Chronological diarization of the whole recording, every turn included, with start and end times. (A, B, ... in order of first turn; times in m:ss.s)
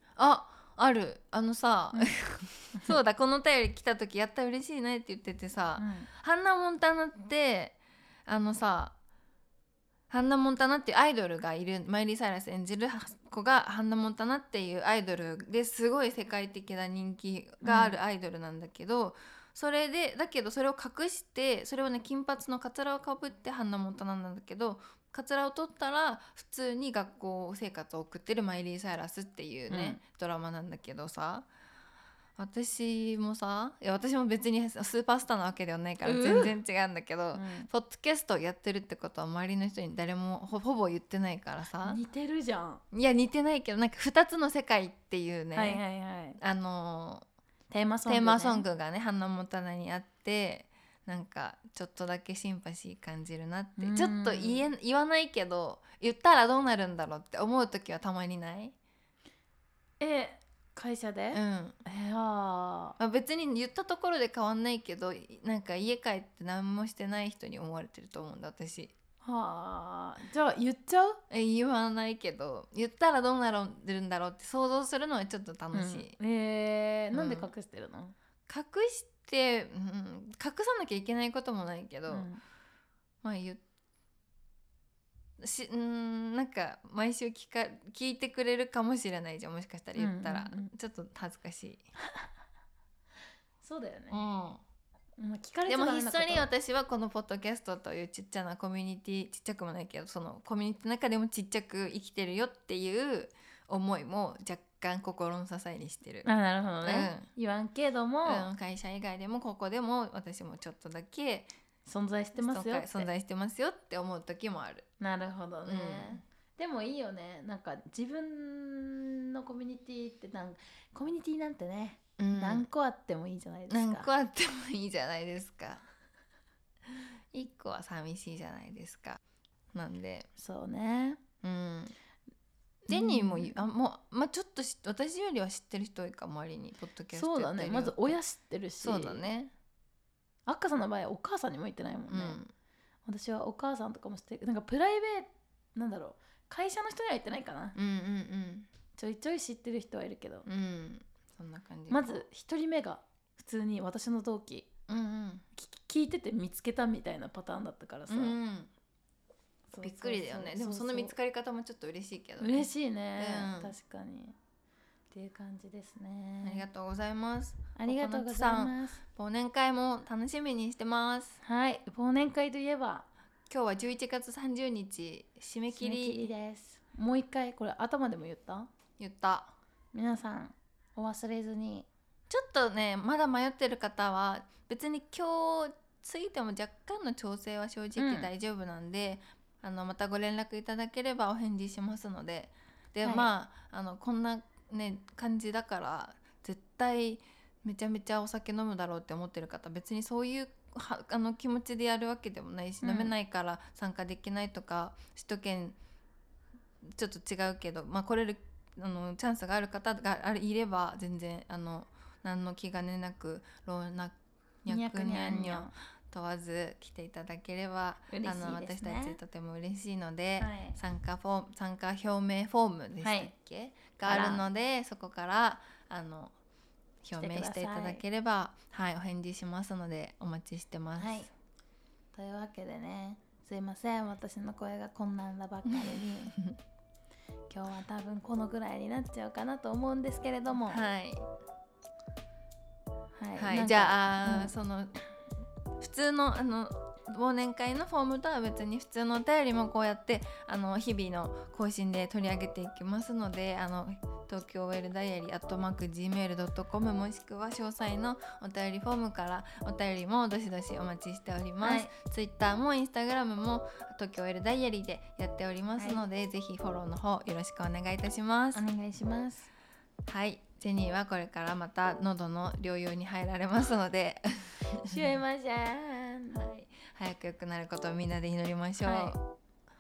0:00.2-0:09.0 A
0:05.8-0:06.1 B
0:10.1-0:31.5 A
0:17.6-0:18.0 B
0:29.7-0:30.0 B
0:32.4-0:42.0 A
0:36.0-0:36.6 B
0:37.4-0:37.7 B
0:41.8-0:42.8 B
0:42.9-0:45.8 A
0:45.5-0:46.4 B
0:46.4-0:47.2 A
0:47.7-0:48.7 B
0:48.1-0:58.8 A
0:53.8-0:54.7 B
1:00.0-1:03.0 B
1:01.3-1:01.8 A
1:03.0-1:09.0 A
1:09.2-1:11.2 B
1:11.3-1:16.2 A
1:15.7-1:18.2 B
1:17.1-1:17.5 A
1:18.5-1:22.3 A
1:22.1-1:22.4 B
1:23.2-1:23.6 A
1:25.4-1:31.9 A
1:30.0-1:30.7 B
1:33.6-1:34.2 B
1:34.1-1:34.6 A
1:35.2-1:36.5 B
1:35.7-1:46.3 A
1:46.2-1:48.5 B
1:46.8-1:47.3 A
1:48.2-1:51.5 A
1:51.9-1:53.1 B
1:52.4-1:54.9 A
1:55.0-2:04.1 B
1:55.6-1:56.2 A
2:02.2-2:02.7 A
2:03.7-2:05.8 A
2:07.3-2:09.2 A
2:09.7-2:10.3 A
2:10.4-2:11.2 B
2:11.4-2:12.0 A
2:12.9-2:18.2 A
2:12.9-2:13.6 B
2:17.1-2:19.2 B
2:18.8-2:19.5 A
2:20.5-2:22.4 B
2:22.1-2:22.5 A
2:23.1-2:27.8 B
2:27.8-2:28.7 A
2:29.0-2:30.5 B
2:30.5-2:32.2 A
2:31.9-2:34.7 B
2:34.9-2:35.4 A
2:35.6-2:38.4 B
2:38.1-2:38.7 A
2:39.7-2:41.1 B
2:39.8-2:43.7 A
2:42.4-2:44.4 B
2:45.1-2:46.7 B
2:46.4-2:51.4 A
2:47.8-2:49.0 B
2:51.4-2:53.1 B
2:53.5-2:56.3 A
2:55.7-2:58.7 B
2:59.0-2:59.6 A
2:59.9-3:01.9 B
3:02.3-3:25.8 A
3:08.0-3:08.3 B
3:13.0-3:13.3 B
3:22.8-3:23.1 B
3:26.8-3:46.3 A
3:34.7-3:35.7 B
3:38.1-3:39.2 B
3:40.4-3:40.8 B
3:43.0-3:43.3 B
3:44.0-3:44.4 B
3:47.0-3:51.3 A
3:47.2-3:48.0 B
3:51.0-3:51.3 B
3:52.1-3:56.4 B
3:55.7-3:56.6 A
3:57.5-4:00.8 B
4:00.7-4:01.3 A
4:03.2-4:04.5 B
4:03.4-4:05.0 A
4:05.8-4:28.6 A
4:21.6-4:21.9 B
4:25.8-4:26.0 B
4:28.5-4:29.5 B
4:30.1-4:35.1 A
4:34.7-4:36.4 B
4:36.3-4:39.2 A
4:38.8-4:39.2 B